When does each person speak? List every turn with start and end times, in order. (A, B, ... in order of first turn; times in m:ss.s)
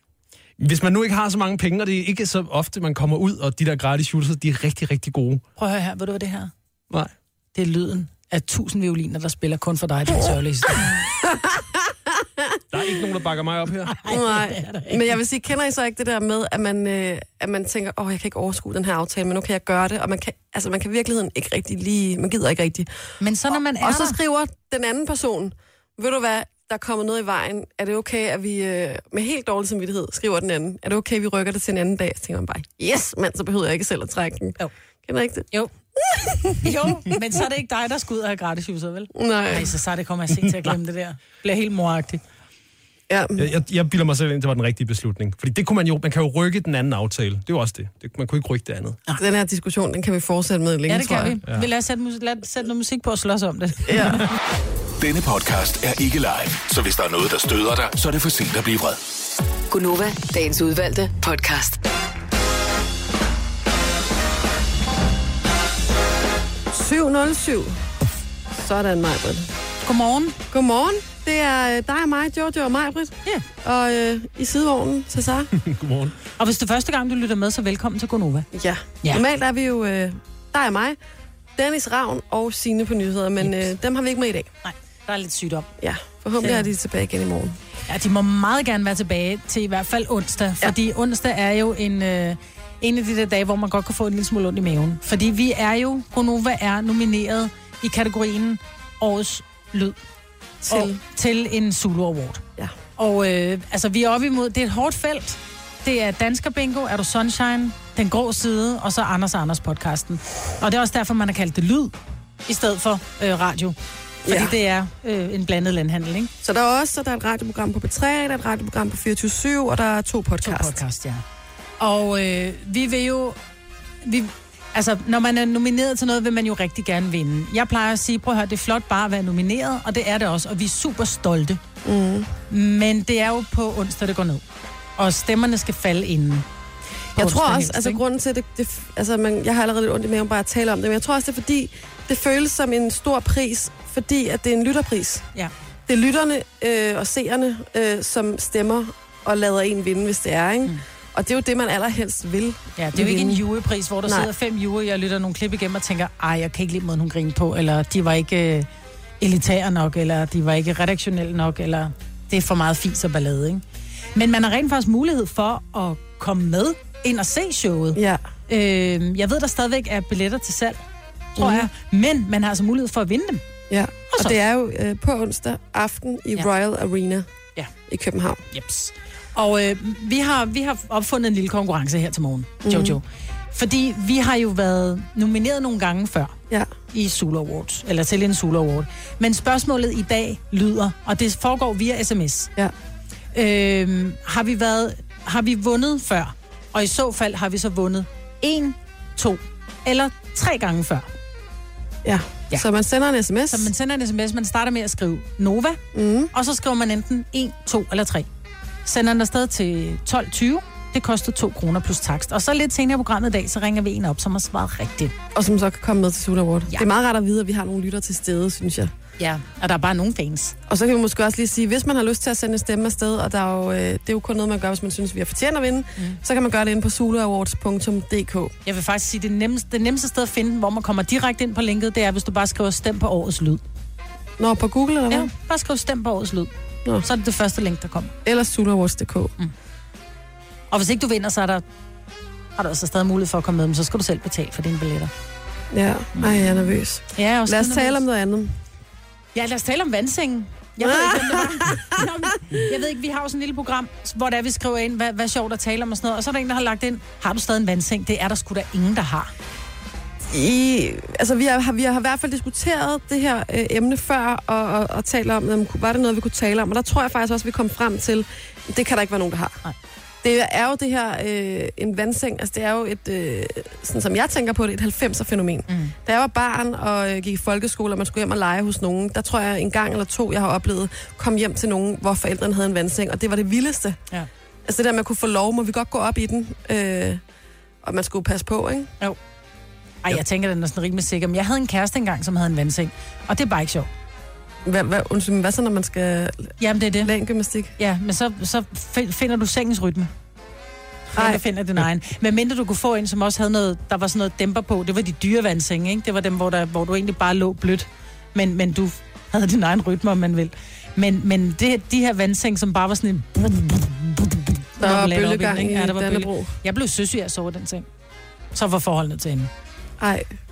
0:00.6-0:05.4 A
0:05.6-0:06.5 B
0:07.5-0:11.0 B
0:11.2-0:11.6 C
0:12.7-0:14.1 A
0:13.8-0:15.2 B
0:14.1-0:22.9 C
0:23.2-0:24.2 B
0:23.8-0:36.7 C
0:36.6-0:42.2 B
0:39.1-0:39.7 C
0:40.4-0:40.7 A
0:43.1-0:43.4 C
0:43.4-0:49.0 A
0:49.2-0:51.4 C
0:50.9-0:54.2 B
0:53.9-0:54.2 C
0:55.0-0:59.0 D
0:59.7-1:01.8 E
1:06.7-1:07.8 C
1:08.5-1:09.5 C
1:09.8-1:10.4 B
1:10.5-1:15.5 C
1:15.5-1:16.2 A
1:16.4-1:18.5 B
1:18.5-1:21.0 C
1:21.6-1:24.5 C
1:24.6-1:25.7 B
1:25.8-1:27.6 C
1:26.4-1:26.7 B
1:27.9-1:40.0 B
1:40.7-1:42.4 B
1:40.7-1:41.0 C
1:43.0-1:51.9 B
1:52.4-1:53.8 B
1:54.2-1:54.5 C
1:54.3-1:56.3 B
1:56.4-2:00.8 C
2:00.4-2:01.2 B
2:01.8-2:03.4 B
2:04.0-2:11.6 B
2:11.8-2:12.3 C
2:12.5-2:14.4 B
2:15.0-2:16.4 B
2:17.2-2:25.2 C
2:17.2-2:18.0 B
2:25.9-2:33.4 C
2:32.8-2:38.7 B
2:39.2-2:43.6 B
2:44.1-2:50.8 B
2:48.0-2:48.2 C
2:51.4-2:53.4 B
2:51.4-2:51.6 C
2:53.7-2:57.2 C
2:54.1-2:54.4 B
2:57.9-2:58.4 C
2:58.5-3:06.3 B
3:02.6-3:03.0 C
3:06.9-3:12.5 B
3:13.3-3:21.1 B
3:22.0-3:23.7 C
3:23.5-3:25.8 B
3:25.9-3:26.3 C
3:26.3-3:28.3 B
3:28.8-3:35.1 B
3:35.3-3:38.9 C
3:39.2-3:40.5 B
3:40.7-3:48.5 C
3:48.6-3:53.6 B
3:54.4-3:55.3 C
3:55.1-3:56.5 B
3:57.0-3:58.1 B
3:58.2-3:59.3 C
4:00.7-4:01.6 B
4:02.6-4:05.1 B
4:05.7-4:08.5 C
4:06.2-4:08.0 B
4:09.3-4:19.3 B
4:10.8-4:12.0 C
4:20.3-4:29.6 C
4:30.2-4:44.0 C
4:35.7-4:35.9 B
4:44.6-4:47.2 C
4:47.8-4:48.9 C
4:50.0-4:53.9 B
4:54.6-4:57.7 C
4:56.6-4:57.1 B
4:57.8-5:00.1 B
5:01.1-5:17.8 B
5:01.2-5:01.4 C
5:14.8-5:16.5 C
5:18.5-5:19.5 B
5:20.0-5:20.3 C